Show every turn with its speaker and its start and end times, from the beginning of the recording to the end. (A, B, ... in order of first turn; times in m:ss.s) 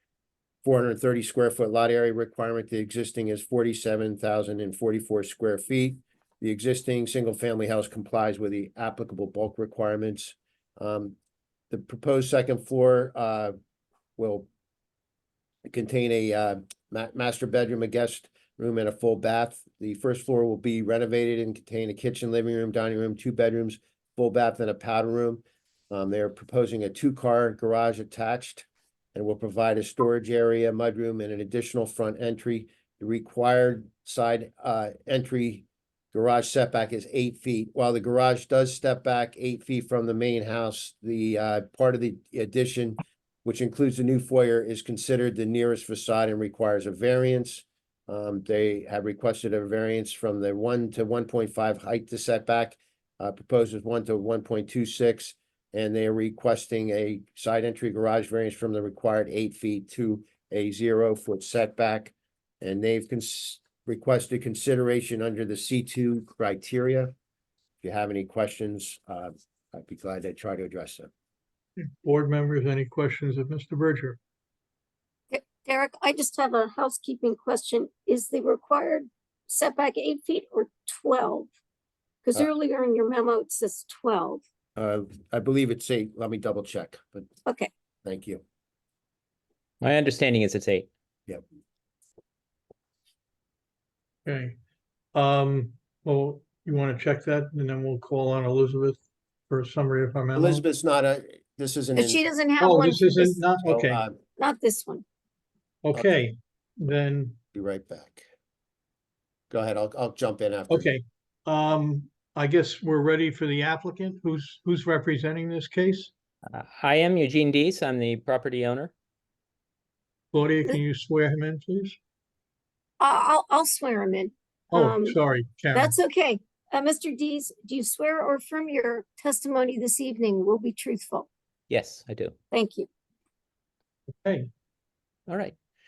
0:00.6-0:11.1 A
0:11.7-0:13.5 A
0:14.2-0:14.5 A
0:15.6-1:07.1 A
1:07.8-1:11.1 A
1:11.8-1:14.2 B
1:15.3-1:21.5 C
1:22.2-1:24.4 C
1:24.8-1:27.3 A
1:28.0-1:28.4 A
1:29.8-1:30.9 D
1:34.2-1:34.6 B
1:35.1-1:40.6 B
1:40.3-1:42.2 A
1:42.0-1:43.4 C
1:42.6-1:44.0 B
1:43.6-1:44.2 A
1:44.4-1:45.0 C
1:45.8-1:47.4 B
1:47.5-1:48.2 A
1:49.5-1:50.9 A
1:50.7-1:56.1 B
1:56.5-1:58.9 D
2:00.3-2:02.0 B
2:03.0-2:05.2 C
2:04.7-2:05.9 B
2:05.7-2:11.3 C
2:11.7-2:12.3 D
2:12.5-2:12.9 C
2:14.1-2:14.5 B
2:15.3-2:15.5 D